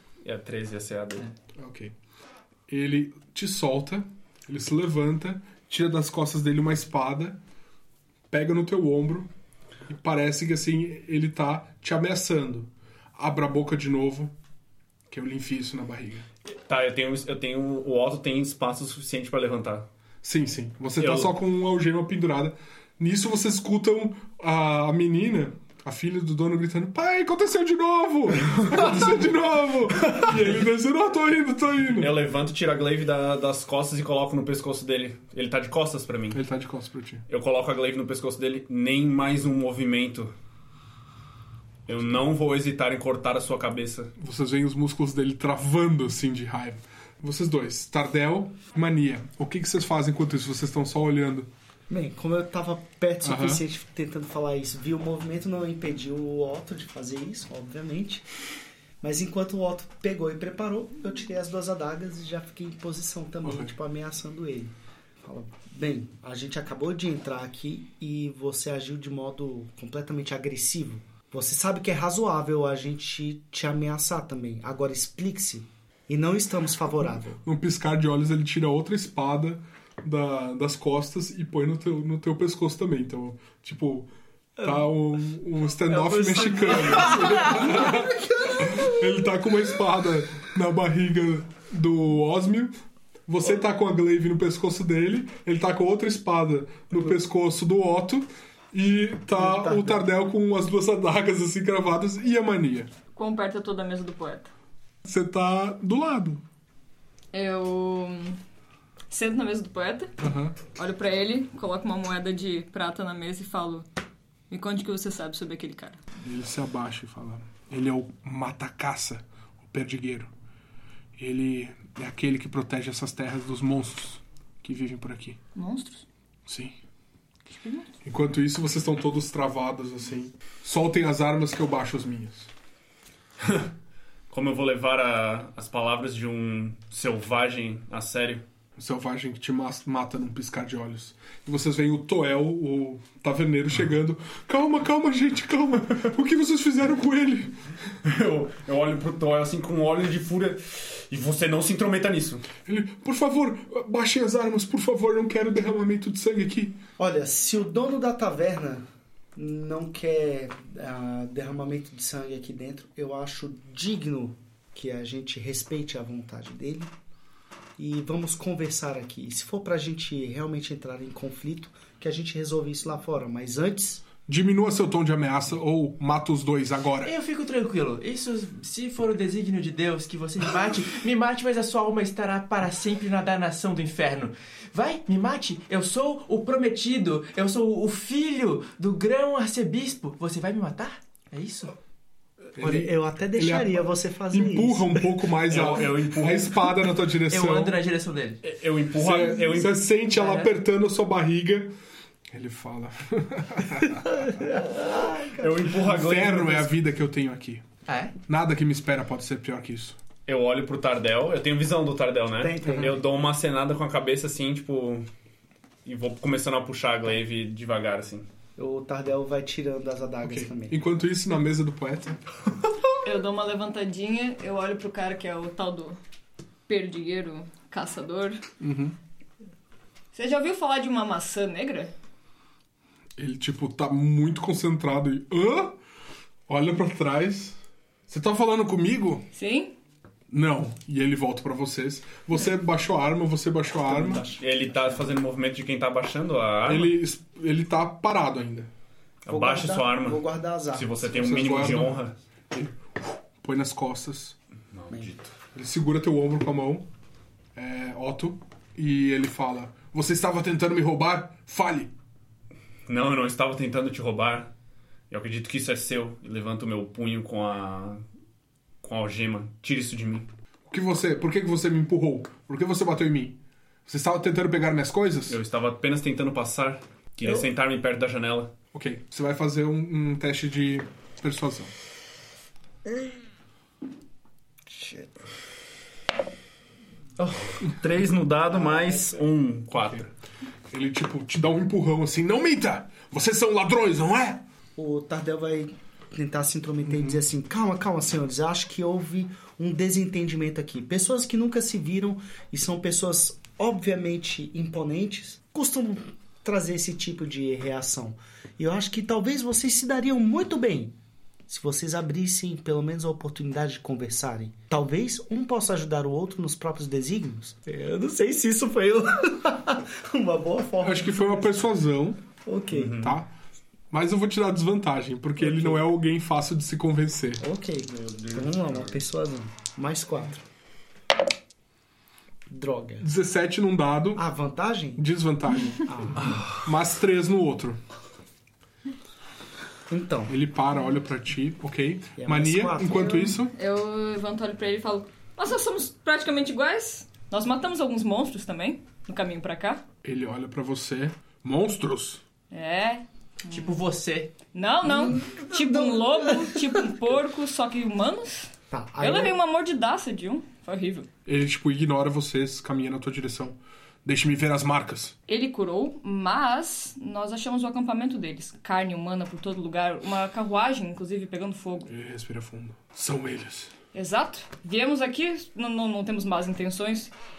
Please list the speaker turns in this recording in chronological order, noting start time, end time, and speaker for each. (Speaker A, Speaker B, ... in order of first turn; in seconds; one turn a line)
Speaker A: 0.2-1.3
Speaker B: 1.6-1.9
Speaker B: 2.7-7.4
Speaker B: 8.3-9.3
Speaker B: 9.9-14.3
Speaker B: 15.1-16.3
Speaker A: 16.5-19.9
Speaker B: 20.2-32.1
Speaker A: 21.0-21.3
Speaker A: 28.6-29.1
Speaker A: 30.0-30.5
Speaker A: 31.9-36.4
Speaker B: 36.3-37.2
Speaker A: 37.3-40.3
Speaker A: 41.9-44.1
Speaker B: 44.2-51.5
Speaker C: 51.9-58.3
Speaker B: 53.2-53.6
Speaker C: 59.0-77.4
Speaker B: 63.4-63.7
Speaker B: 77.4-92.7
Speaker C: 84.6-84.9
Speaker C: 85.9-88.9
Speaker B: 93.3-102.9
Speaker C: 99.3-100.0
Speaker D: 103.1-104.5
Speaker B: 105.0-106.4
Speaker D: 107.3-108.4
Speaker D: 109.1-110.1
Speaker B: 110.2-110.6
Speaker D: 110.7-113.9
Speaker D: 114.5-116.0
Speaker B: 116.2-120.3
Speaker B: 121.2-125.4
Speaker D: 125.5-126.0
Speaker B: 126.5-126.8
Speaker D: 127.5-127.9
Speaker B: 128.0-132.5
Speaker A: 133.4-133.7
Speaker A: 134.3-138.4
Speaker B: 138.8-147.6
Speaker A: 148.0-152.5
Speaker B: 152.6-156.8
Speaker C: 157.0-166.9
Speaker C: 167.8-174.0
Speaker B: 174.2-177.1
Speaker E: 177.0-191.7
Speaker C: 192.5-195.2
Speaker B: 192.6-197.8
Speaker A: 195.5-196.7
Speaker E: 197.3-198.4
Speaker A: 198.4-199.8
Speaker B: 198.9-201.7
Speaker E: 200.1-200.5
Speaker B: 202.3-204.4
Speaker C: 204.1-205.7
Speaker A: 205.4-206.7
Speaker B: 205.7-207.6
Speaker E: 207.8-208.2
Speaker B: 208.3-210.0
Speaker A: 210.2-215.1
Speaker C: 212.4-213.0
Speaker A: 215.8-218.3
Speaker C: 218.6-220.8
Speaker B: 220.2-222.2
Speaker D: 223.0-226.0
Speaker D: 226.7-228.4
Speaker B: 228.6-228.9
Speaker D: 230.1-231.9
Speaker B: 233.2-235.8
Speaker B: 236.5-237.6
Speaker B: 238.1-239.3
Speaker D: 239.3-239.7
Speaker B: 240.3-244.2
Speaker C: 243.8-245.0
Speaker A: 244.2-246.9
Speaker B: 246.6-248.7
Speaker A: 249.2-252.1
Speaker C: 249.3-251.0
Speaker B: 251.1-252.0
Speaker B: 252.5-254.3
Speaker A: 254.7-255.3
Speaker B: 255.5-256.9
Speaker B: 257.5-261.9
Speaker A: 262.9-264.5
Speaker A: 265.1-268.0
Speaker A: 268.8-270.3
Speaker B: 270.7-275.4
Speaker A: 275.3-278.5
Speaker B: 278.7-281.7
Speaker C: 284.7-285.1
Speaker A: 287.2-290.1
Speaker C: 288.5-289.2
Speaker B: 289.7-290.0
Speaker B: 290.7-294.4
Speaker C: 294.8-310.9
Speaker C: 311.5-321.8
Speaker B: 320.8-322.2
Speaker C: 322.4-323.1
Speaker A: 322.7-323.1
Speaker B: 322.9-323.3
Speaker B: 323.9-327.4
Speaker C: 325.4-325.9
Speaker C: 327.4-330.4
Speaker A: 328.0-328.8
Speaker C: 332.5-333.1
Speaker B: 333.0-334.2
Speaker C: 334.1-335.0
Speaker B: 335.0-337.8
Speaker C: 335.8-336.4
Speaker C: 339.9-340.3
Speaker B: 340.3-343.5
Speaker C: 342.2-343.4
Speaker D: 342.9-349.8
Speaker B: 350.0-352.2
Speaker D: 352.5-353.8
Speaker E: 353.5-354.3
Speaker D: 354.5-361.1
Speaker C: 354.9-356.9
Speaker C: 358.7-359.4
Speaker B: 361.2-365.1
Speaker D: 365.3-371.9
Speaker B: 371.9-373.7
Speaker D: 373.9-377.1